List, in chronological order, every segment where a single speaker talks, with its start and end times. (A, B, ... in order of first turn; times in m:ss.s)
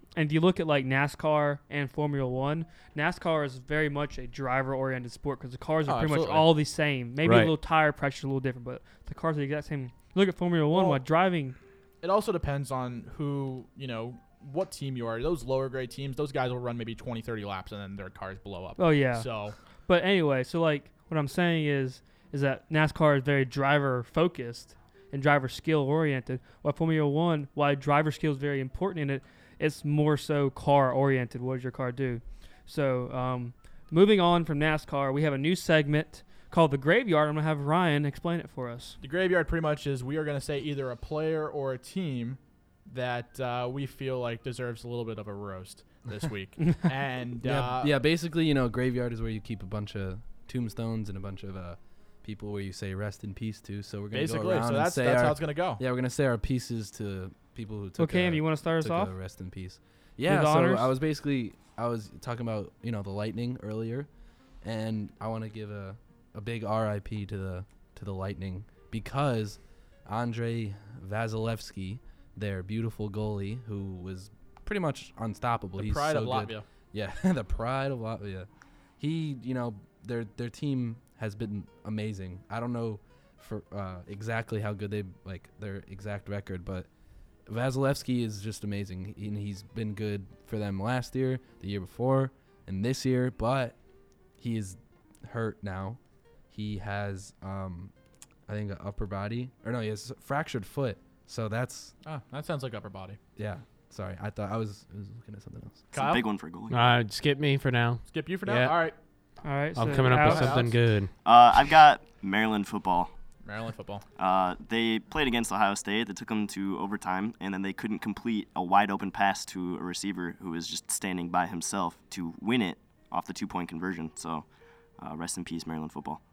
0:00.2-0:11.6 A
0:05.9-0:06.5 B
0:07.2-0:07.5 C
0:10.7-0:11.0 B
0:12.0-0:19.5 B
0:18.8-0:19.3 A
0:19.9-0:39.0 A
0:39.0-0:48.0 B
0:47.4-1:04.1 D
0:54.1-0:55.8 B
0:58.0-0:59.1 A
1:00.2-1:00.9 A
1:04.6-1:18.5 D
1:15.8-1:16.6 B
1:19.0-1:26.9 D
1:27.5-1:33.8 D
1:34.4-1:36.0 D
1:36.5-1:37.9 D
1:38.5-1:41.9 D
1:42.0-1:43.2 B
1:43.4-1:45.9 D
1:45.9-1:46.8 E
1:45.9-1:46.2 B
1:46.7-1:48.8 C
1:48.1-1:49.0 B
1:49.4-1:50.5 A
1:49.8-1:51.1 C
1:49.8-1:50.8 B
1:51.2-1:53.1 E
1:53.4-1:54.0 B
1:54.2-2:04.5 E
2:05.0-2:06.2 E